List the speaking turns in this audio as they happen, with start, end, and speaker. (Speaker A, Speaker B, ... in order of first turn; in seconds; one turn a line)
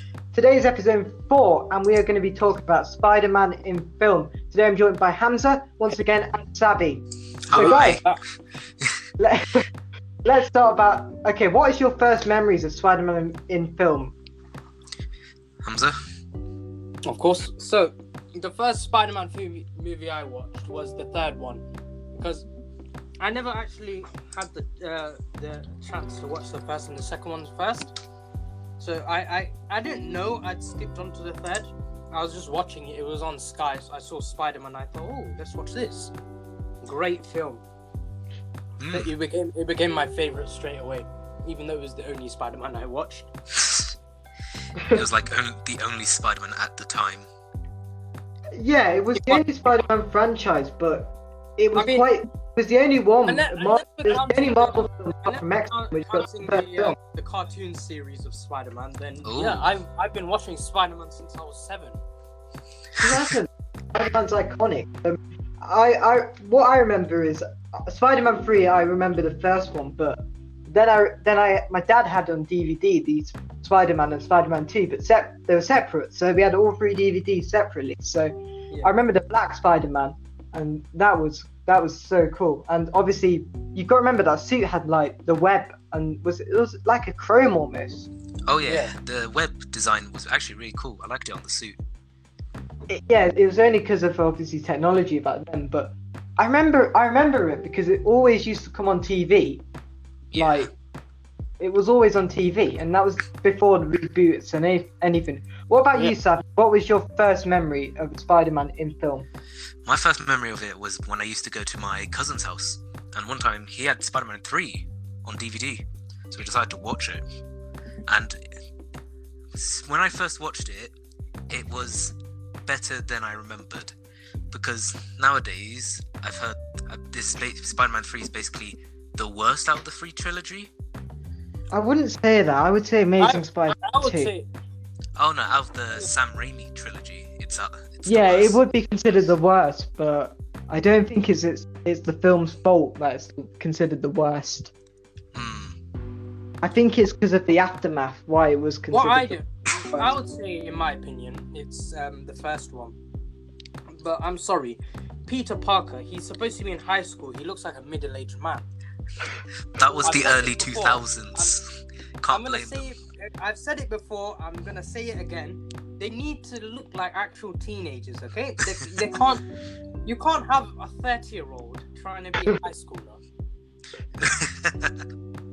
Speaker A: 0.3-8.0
Speaker B: 7.5-8.0
Speaker C: 7.5-8.2
Speaker A: 9.2-9.7
Speaker A: 10.2-14.2
Speaker B: 15.6-16.0
Speaker C: 17.1-21.6
Speaker C: 22.2-22.5
Speaker C: 23.2-27.9
Speaker C: 28.8-36.1
Speaker C: 36.8-37.6
Speaker B: 38.8-39.1
Speaker C: 38.9-43.3
Speaker B: 43.6-43.9
Speaker A: 44.8-45.0
Speaker B: 44.9-47.3
Speaker A: 48.5-57.0
Speaker C: 49.1-49.4
Speaker C: 51.7-52.1
Speaker C: 53.3-62.0
Speaker B: 59.2-59.6
Speaker A: 63.0-88.1
Speaker B: 88.5-91.8
Speaker C: 88.6-89.0
Speaker A: 92.9-99.6
Speaker B: 100.3-100.7
Speaker A: 100.3-100.7
Speaker A: 101.6-109.3
Speaker B: 109.8-117.2
Speaker B: 118.1-118.4
Speaker B: 119.5-121.0
Speaker B: 121.5-122.2
Speaker B: 122.7-124.0
Speaker B: 124.5-130.7
Speaker A: 131.7-134.3
Speaker C: 133.2-134.5
Speaker B: 135.2-138.6
Speaker A: 138.1-144.7
Speaker B: 145.3-145.8
Speaker A: 146.6-150.1
Speaker C: 148.9-153.0
Speaker C: 153.9-158.7
Speaker B: 159.8-162.9
Speaker C: 160.0-161.6
Speaker C: 162.3-169.5
Speaker C: 170.1-173.2
Speaker B: 174.2-174.9